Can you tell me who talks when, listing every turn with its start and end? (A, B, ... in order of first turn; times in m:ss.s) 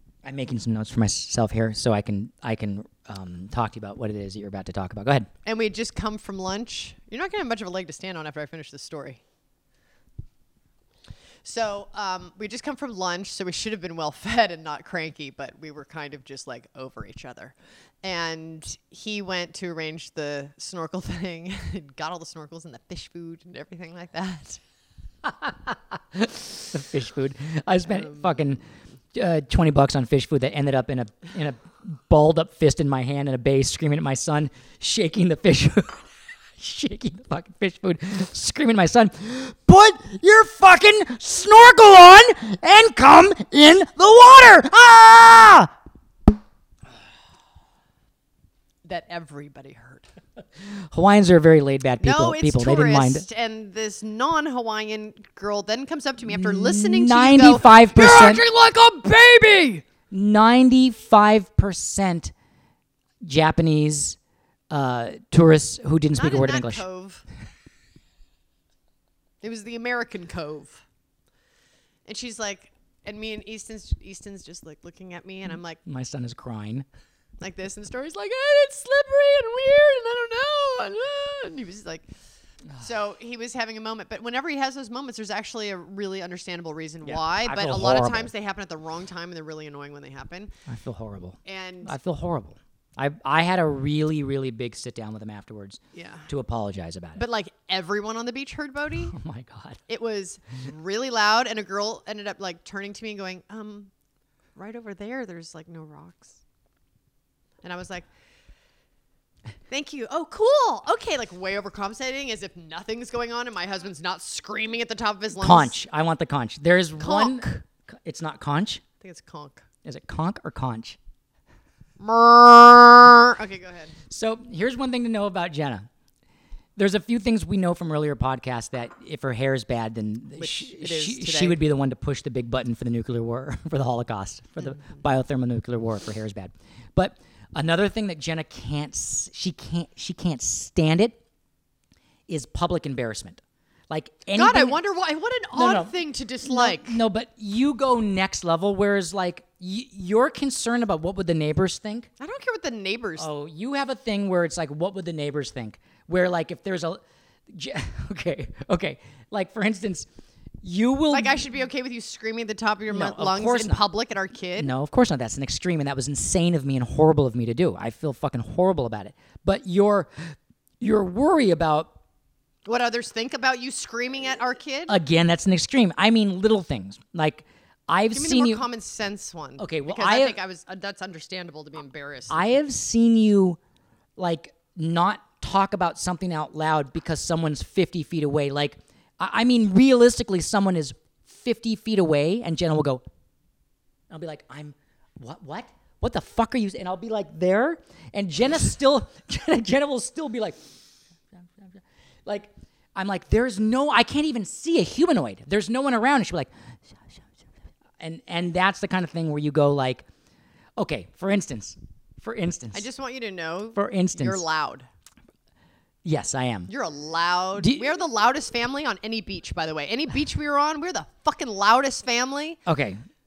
0:00.2-0:05.3 A
0:05.4-0:09.2 B
0:11.4-0:24.6 B
0:25.2-0:28.6 A
0:27.9-0:28.4 B
0:29.2-0:45.7 A
0:48.8-0:50.1 B
0:50.7-0:53.3 A
0:52.0-0:59.8 B
0:56.3-0:58.4 A
1:00.1-1:02.3 A
1:03.2-1:04.2 A
1:04.7-1:06.8 A
1:06.2-1:07.2 B
1:09.4-1:10.8 B
1:12.1-1:15.8 B
1:15.8-1:16.9 A
1:17.4-1:22.1 B
1:22.8-1:30.6 B
1:27.0-1:28.3 A
1:30.7-1:37.2 A
1:31.4-1:32.0 B
1:35.9-1:36.3 B
1:37.2-1:39.2 B
1:39.1-1:39.8 A
1:39.9-1:43.9 B
1:44.6-1:46.4 B
1:47.6-1:48.1 B
1:49.7-1:55.8 B
1:55.4-1:58.8 A
1:57.0-1:57.4 B
1:59.0-1:59.6 B
1:59.8-2:01.0 A
2:02.0-2:03.9 B
2:04.1-2:05.9 A
2:06.8-2:21.2 A
2:10.4-2:11.6 B
2:22.3-2:24.8 A
2:24.3-2:27.0 B
2:25.5-2:32.1 A
2:32.2-2:33.3 B
2:33.2-2:40.1 A
2:40.6-2:41.4 A
2:41.1-2:44.7 B
2:42.9-2:43.8 A
2:44.6-2:51.9 A
2:52.7-2:55.0 B
2:54.9-2:58.6 A
2:58.1-3:02.6 B
2:59.6-3:00.4 A
3:02.3-3:03.6 A
3:04.2-3:13.0 A
3:14.1-3:20.6 A
3:21.3-3:26.5 A
3:28.0-3:30.1 A
3:30.8-3:32.9 A
3:32.7-3:34.9 B
3:33.8-3:34.4 A
3:36.0-3:36.7 A
3:36.7-3:42.6 B
3:37.6-3:37.8 A
3:42.7-3:43.0 A